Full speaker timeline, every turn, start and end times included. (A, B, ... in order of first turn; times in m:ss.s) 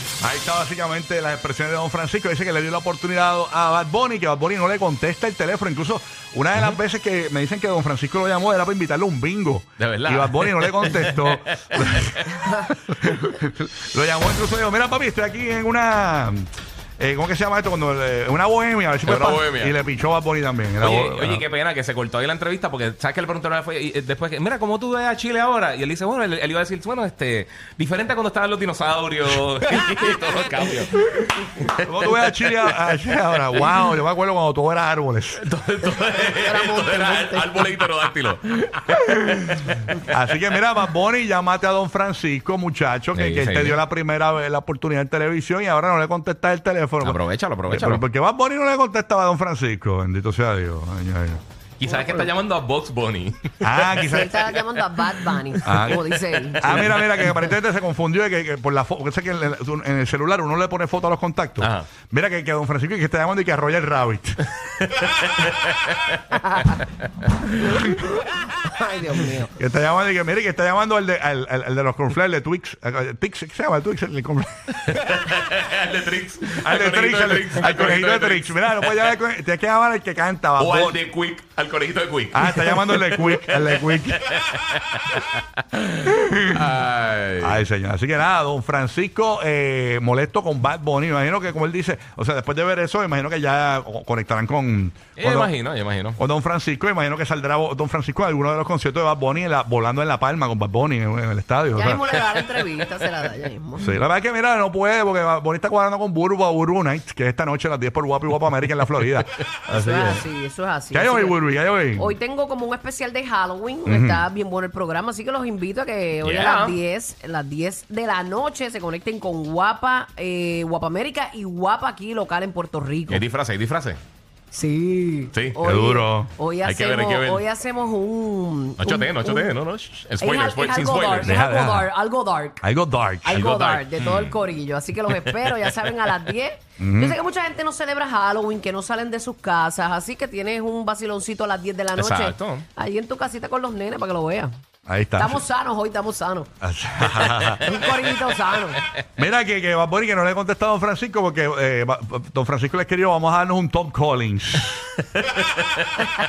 0:00.2-0:21.4 A
0:09.8-0:12.2 B
0:19.0-0:19.8 B
0:20.8-0:31.0 B
0:31.6-0:33.8 B
0:31.8-0:35.4 A
0:35.4-0:40.0 B
0:36.4-0:37.7 C
0:40.1-0:51.4 A
0:43.1-0:43.8 B
0:47.0-0:48.0 B
0:51.8-0:54.3 B
0:51.9-0:52.3 C
0:53.6-0:54.4 A
0:54.1-0:56.8 C
0:55.6-0:56.1 A
0:55.7-0:56.0 B
0:56.5-0:57.5 B
0:56.6-1:04.4 A
1:01.6-1:01.9 B
1:04.8-1:06.4 B
1:06.4-1:06.8 C
1:07.6-1:07.9 A
1:08.6-1:09.5 C
1:09.6-1:15.0 A
1:14.9-1:19.2 B
1:16.6-1:21.0 A
1:20.6-1:25.4 B
1:22.3-1:24.2 A
1:25.9-1:26.7 A
1:26.5-1:27.6 B
1:27.4-1:35.5 A
1:35.2-1:36.2 B
1:36.2-1:42.2 A
1:41.7-1:44.0 C
1:43.8-1:50.3 A
1:49.7-2:03.2 C
1:50.9-1:52.2 A
1:53.9-1:54.3 A
1:56.2-1:56.8 B
2:03.1-2:04.0 B
2:04.5-2:09.5 C
2:05.3-2:05.6 B
2:05.6-2:06.3 A
2:06.6-2:07.4 B
2:08.8-2:11.3 B
2:10.2-2:12.6 C
2:11.2-2:11.9 A
2:12.6-2:13.5 A
2:13.2-2:24.6 C
2:13.3-2:14.4 B
2:16.8-2:17.2 A
2:22.0-2:22.7 B
2:24.9-2:25.4 A
2:25.2-2:26.5 C
2:26.6-2:27.6 A
2:27.0-2:27.5 B
2:27.6-2:28.8 C
2:29.2-2:34.9 A
2:35.2-2:35.8 B